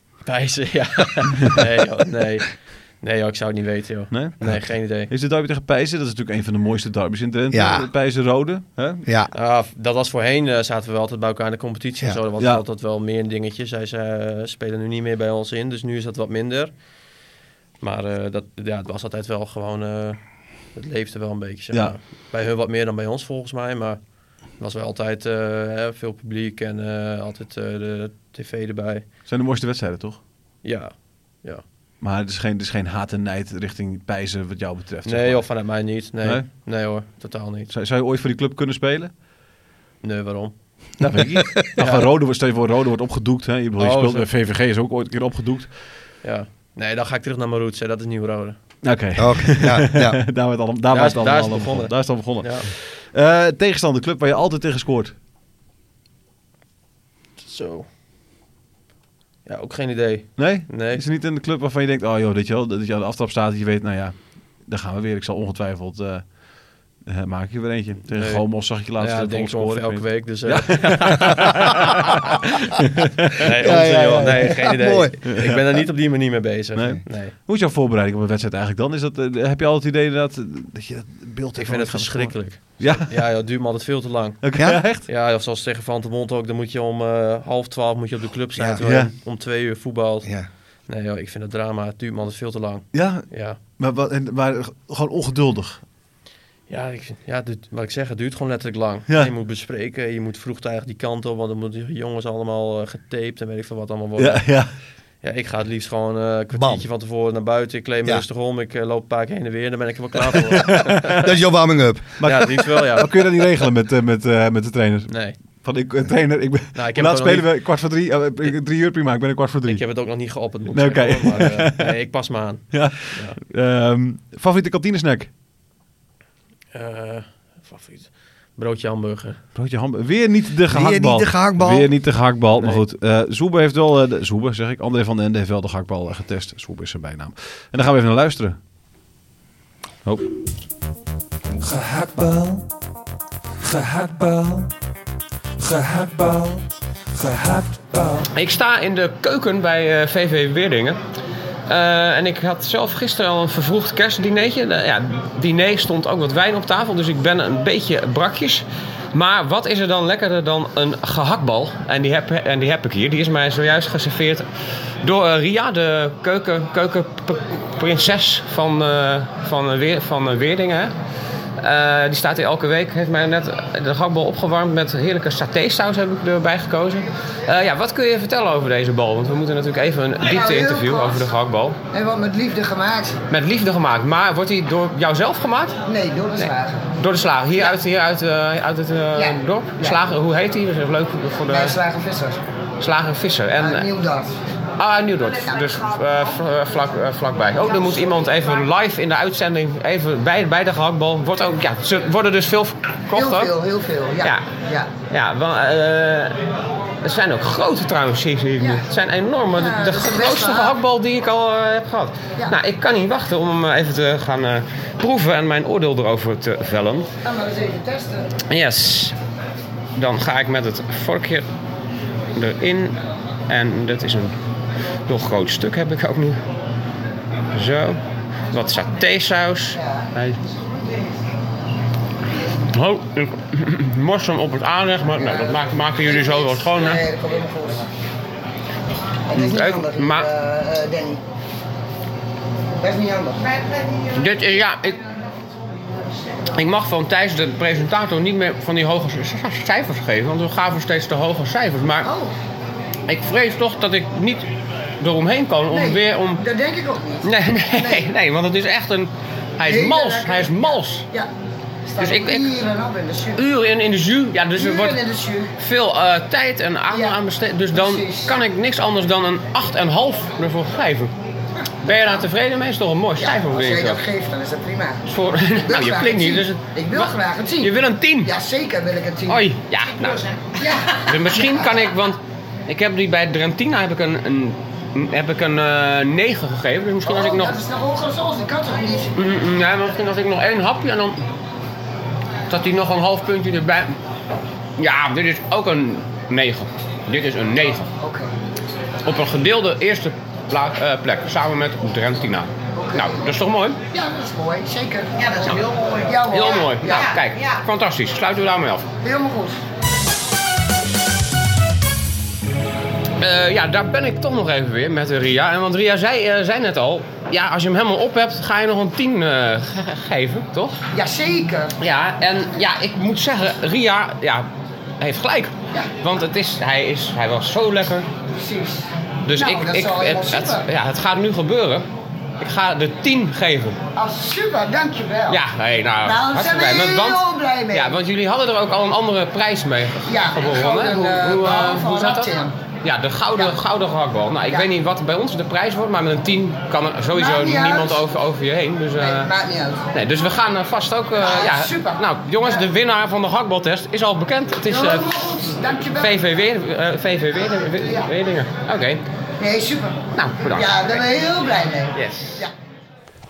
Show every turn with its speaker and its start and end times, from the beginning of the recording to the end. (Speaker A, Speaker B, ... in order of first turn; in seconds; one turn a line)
Speaker A: 0.2-5.1
Speaker B: 4.1-9.1
Speaker C: 4.4-4.7
Speaker C: 7.5-7.9
Speaker C: 9.0-9.3
Speaker A: 9.3-16.8
Speaker A: 17.8-29.1
Speaker B: 29.2-30.2
Speaker A: 30.6-31.6
Speaker B: 32.0-36.5
Speaker A: 35.0-37.7
Speaker B: 37.7-39.2
Speaker A: 40.0-42.1
Speaker B: 41.0-46.1
Speaker A: 43.8-44.3
Speaker A: 46.2-48.6
Speaker B: 48.8-55.1
Speaker C: 49.1-50.2
Speaker A: 50.9-52.7
Speaker A: 57.4-57.9
Speaker A: 59.4-61.0
Speaker B: 60.4-72.1
Speaker A: 68.1-72.5
Speaker B: 72.7-73.4
Speaker A: 73.4-77.3
Speaker C: 73.6-75.2
Speaker B: 75.3-75.8
Speaker B: 76.8-83.2
Speaker A: 81.6-93.6
Speaker B: 84.4-85.1
Speaker C: 88.5-88.8
Speaker B: 88.8-89.1
Speaker B: 92.9-95.8
Speaker A: 96.7-104.6
Speaker B: 104.2-104.7
Speaker A: 105.2-111.3
Speaker C: 106.5-106.8
Speaker B: 110.7-111.1
Speaker C: 111.2-112.2
Speaker B: 112.2-119.8
Speaker A: 112.2-113.1
Speaker A: 115.1-115.4
Speaker A: 116.7-117.5
Speaker A: 119.7-123.4
Speaker B: 120.7-122.0
Speaker B: 122.7-125.3
Speaker A: 126.7-129.4
Speaker B: 129.5-138.6
Speaker C: 130.7-131.9
Speaker B: 141.6-142.6
Speaker B: 143.6-144.7
Speaker B: 145.6-148.2
Speaker D: 148.3-151.0
Speaker D: 151.7-164.4
Speaker D: 165.0-170.9
Speaker D: 171.6-181.8
Speaker E: 180.2-181.3
Speaker E: 181.9-183.2
Speaker D: 183.3-185.8
Speaker E: 185.9-186.9
Speaker D: 186.4-191.8
Speaker E: 189.1-190.0
Speaker E: 191.5-192.4
Speaker D: 192.8-193.9
Speaker E: 193.6-194.3
Speaker D: 194.8-203.5
Speaker E: 195.5-195.7
Speaker E: 203.1-204.9
Speaker D: 204.2-204.5
Speaker D: 205.1-206.4
Speaker D: 207.0-217.1
Speaker E: 208.6-208.8
Speaker E: 209.5-210.7
Speaker E: 217.2-218.3
Speaker D: 218.5-219.1
Speaker D: 219.9-221.4
Speaker D: 222.3-222.9
Speaker D: 223.5-224.3
Speaker D: 225.1-226.4
Speaker D: 227.5-228.0
Speaker D: 228.5-230.4
Speaker E: 229.8-230.1
Speaker D: 232.7-237.0
Speaker E: 235.2-237.8
Speaker E: 239.3-241.2
Speaker D: 239.3-240.3
Speaker E: 242.8-243.6
Speaker D: 244.1-245.0
Speaker D: 246.5-252.1
Speaker E: 252.0-252.3
Speaker D: 253.1-254.4
Speaker D: 255.0-256.4
Speaker E: 255.7-258.1
Speaker D: 257.2-261.1
Speaker E: 259.6-261.3
Speaker E: 261.9-263.4
Speaker D: 262.0-262.5
Speaker D: 263.4-265.0
Speaker E: 264.5-265.5
Speaker D: 265.6-271.1
Speaker E: 266.9-267.2
Speaker E: 267.7-268.4
Speaker D: 271.8-274.0
Speaker E: 273.2-275.0
Speaker D: 275.1-278.3
Speaker E: 275.6-279.4
Speaker D: 279.3-280.3
Speaker E: 280.6-281.7
Speaker D: 281.0-287.6
Speaker E: 287.0-289.1
Speaker D: 289.1-291.2
Speaker D: 292.5-293.9
Speaker D: 294.8-297.9
Speaker E: 298.0-298.3
Speaker D: 299.0-303.8
Speaker E: 302.8-303.3
Speaker E: 303.9-307.1
Speaker D: 306.3-308.9
Speaker E: 309.0-309.6
Speaker D: 313.2-320.8
Speaker E: 320.9-321.7
Speaker D: 321.8-324.5
Speaker D: 325.0-328.1
Speaker E: 328.3-330.6
Speaker D: 329.2-331.8
Speaker D: 332.4-333.8
Speaker E: 333.9-335.4
Speaker D: 335.3-349.3
Speaker E: 336.0-338.0
Speaker E: 340.1-342.5
Speaker E: 347.1-348.0
Speaker E: 349.0-349.9
Speaker D: 349.9-355.1
Speaker E: 351.2-352.7
Speaker E: 354.6-356.2
Speaker D: 355.9-359.0
Speaker E: 357.5-358.1
Speaker E: 359.4-362.5
Speaker D: 360.1-361.0
Speaker D: 361.9-362.4